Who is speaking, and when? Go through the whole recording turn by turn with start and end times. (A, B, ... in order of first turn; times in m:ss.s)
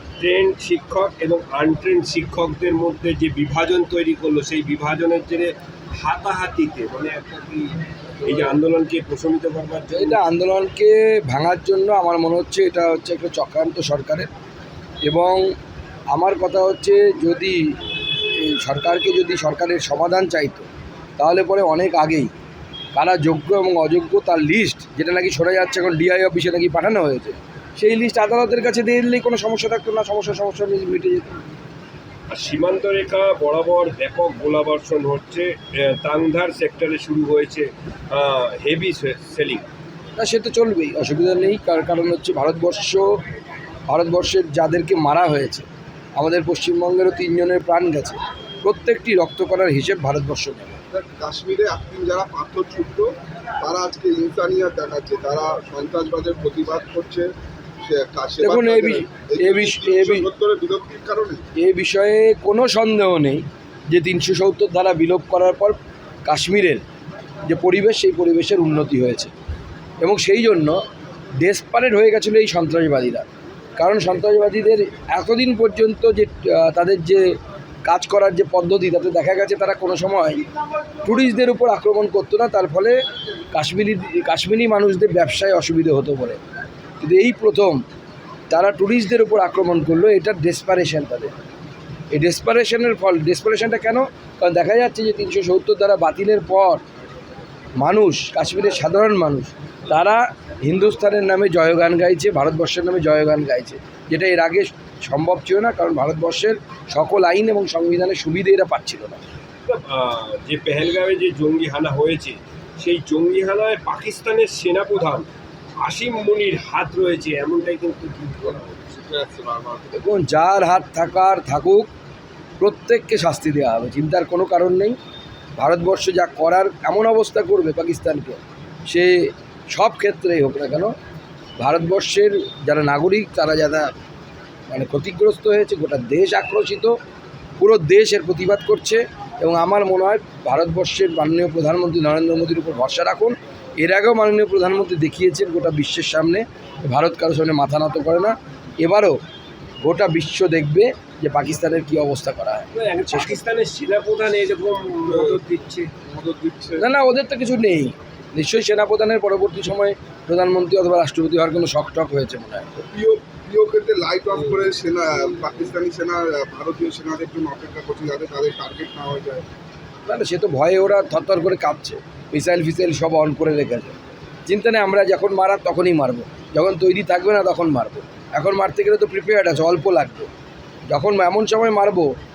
0:00.2-0:10.2 A
0:09.9-0:14.3 B
0:15.0-0:15.4 B
0:16.1-0:17.6 B
0:18.3-0:20.6 B
0:21.2-0:22.3 B
0:22.9-0:31.4 B
0:32.3-0:39.7 A
0:40.2-0:43.2 B
0:43.9-0:45.6 B
0:46.2-0:50.8 B
0:50.9-1:01.4 C
0:58.4-1:00.3 B
1:01.6-1:06.8 B
1:07.4-1:09.3 B
1:10.0-1:10.8 B
1:11.4-1:13.3 B
1:13.8-1:17.3 B
1:17.8-1:20.4 B
1:21.0-1:23.0 B
1:23.5-1:26.4 B
1:27.0-1:27.8 B
1:28.5-1:31.3 B
1:32.1-1:36.8 B
1:37.8-1:49.2 B
1:49.6-1:55.3 A
1:55.8-1:58.9 A
1:58.9-1:59.9 C
1:59.9-2:01.9 B
2:02.6-2:05.0 B
2:05.6-2:10.9 B
2:11.6-2:13.9 B
2:14.7-2:16.9 B
2:17.6-2:29.2 B
2:29.8-2:33.4 B
2:32.7-2:35.9 A
2:35.1-2:35.4 C
2:36.0-2:36.8 C
2:36.8-2:42.8 B
2:42.8-2:49.5 C
2:50.1-2:53.9 B
2:54.5-3:00.3 B
3:00.9-3:02.1 B